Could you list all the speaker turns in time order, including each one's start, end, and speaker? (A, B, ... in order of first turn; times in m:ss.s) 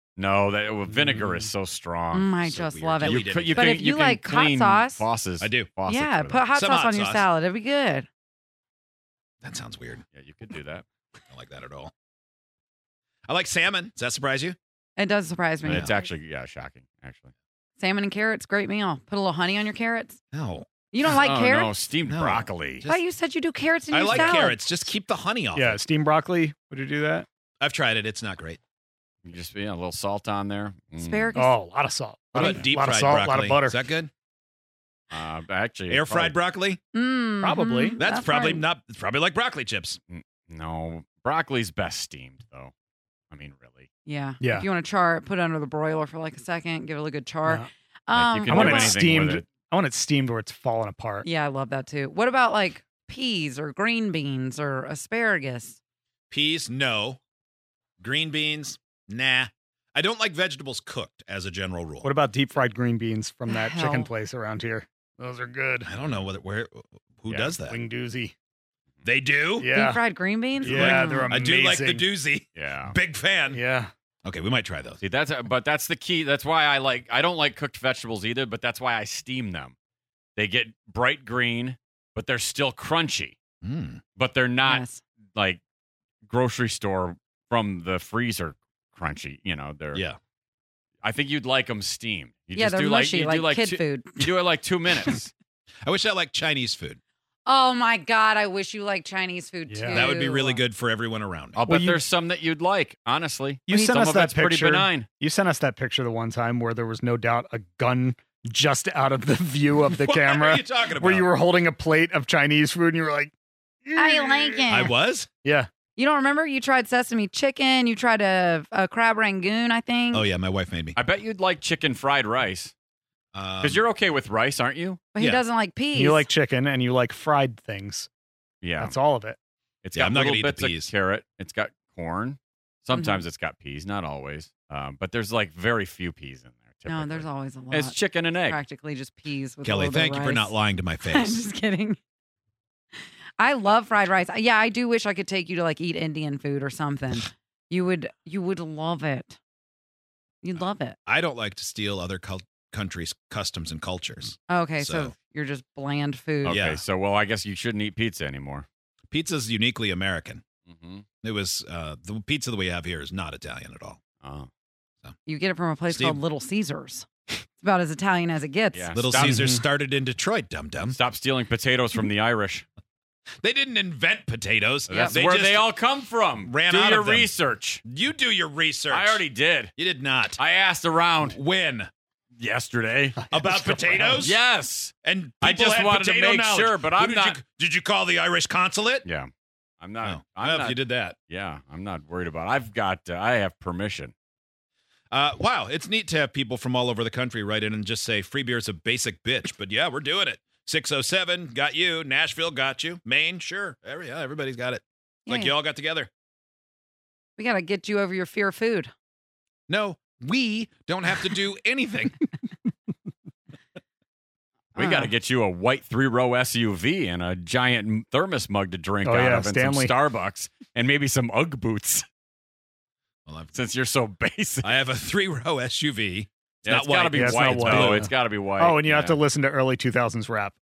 0:00.2-0:06.5 A
0:00.9-0:01.5 B
0:02.1-0:05.0 C
0:02.5-0:03.8 D
0:05.4-0:05.7 D
0:05.9-0:08.1 C
0:06.5-0:07.2 D
0:09.4-0:10.0 D
0:10.1-0:10.8 A
0:11.3-0:11.9 D
0:13.3-0:14.6 D
0:15.0-0:15.9 C
0:15.6-0:17.3 A
0:17.8-0:20.2 C
0:20.3-0:20.7 D
0:20.9-0:21.7 C
0:21.0-0:22.9 A
0:22.0-0:23.0 D
0:22.8-0:24.6 C
0:23.9-0:25.8 D
0:25.6-0:27.3 B
0:27.6-0:28.6 D
0:29.2-0:31.4 A
0:31.0-0:31.6 C
0:31.4-0:33.8 B
0:32.3-0:34.1 D
0:35.1-0:36.4 A
0:35.9-0:36.8 D
0:36.9-0:38.6 C
0:37.4-0:38.0 B
0:38.0-0:40.0 D
0:40.1-0:42.7 A
0:43.3-0:43.9 A
0:44.0-0:49.0 C
0:44.4-0:44.7 B
0:47.4-0:47.7 B
0:48.1-0:49.4 A
0:48.5-0:51.3 B
0:51.2-0:55.8 C
0:56.3-0:57.2 D
0:58.0-1:02.1 D
1:02.0-1:05.9 B
1:03.5-1:04.1 C
1:05.8-1:07.8 D
1:07.3-1:07.5 A
1:07.7-1:08.3 B
1:09.0-1:09.7 D
1:09.6-1:10.0 B
1:09.7-1:11.3 C
1:10.6-1:13.6 D
1:10.6-1:12.1 B
1:12.6-1:13.0 A
1:13.5-1:13.9 B
1:14.2-1:15.0 D
1:15.0-1:19.7 A
1:20.4-1:23.4 A
1:23.6-1:24.0 D
1:24.2-1:25.6 A
1:24.6-1:25.0 C
1:26.3-1:30.0 A
1:31.0-1:35.3 A
1:32.6-1:34.3 C
1:35.8-1:37.0 D
1:37.5-1:40.6 C
1:39.7-1:40.1 B
1:40.0-1:41.6 D
1:41.6-1:45.1 A
1:41.7-1:42.0 B
1:43.7-1:54.9 B
1:50.0-1:51.3 D
1:54.0-1:54.9 C
1:54.7-1:55.3 D
1:56.0-2:00.3 C
2:00.1-2:01.0 D
2:01.0-2:02.7 A
2:03.3-2:03.8 D
2:03.6-2:05.0 A
2:05.2-2:06.3 C
2:05.9-2:08.1 B
2:08.6-2:09.0 A
2:08.8-2:09.4 B
2:09.8-2:18.6 A
2:09.9-2:10.9 D
2:12.9-2:13.2 C
2:16.9-2:22.0 C
2:19.6-2:21.4 D
2:23.4-2:29.4 C
2:30.4-2:31.0 C
2:31.1-2:35.2 D
2:34.5-2:36.6 C
2:36.4-2:38.7 A
2:36.5-2:36.8 D
2:39.1-2:40.4 D
2:40.7-2:41.0 A
2:41.2-2:44.0 D
2:44.2-2:44.5 A
2:45.2-2:48.9 C
2:45.9-2:46.2 D
2:48.7-2:49.5 A
2:48.9-2:51.0 D
2:49.2-2:49.6 B
2:50.9-2:52.6 A
2:53.4-2:55.7 D
2:54.9-2:57.8 A
2:54.9-2:55.2 C
2:56.4-2:57.3 D
2:57.8-3:00.4 D
2:58.9-2:59.7 A
3:00.4-3:01.4 A
3:01.2-3:01.9 D
3:02.4-3:03.2 A
3:03.3-3:04.4 D
3:03.3-3:04.2 B
3:04.2-3:07.4 A
3:05.0-3:09.1 D
3:09.8-3:14.1 A
3:10.0-3:11.2 D
3:15.1-3:26.1 D
3:25.3-3:25.5 C
3:27.4-3:28.9 C
3:29.7-3:32.2 D
3:34.8-3:35.1 C
3:34.8-3:42.1 A
3:39.0-3:40.0 B
3:43.3-3:43.6 D
3:43.5-3:44.8 A
3:44.6-3:48.0 D
3:46.6-3:49.2 A
3:47.1-3:50.6 B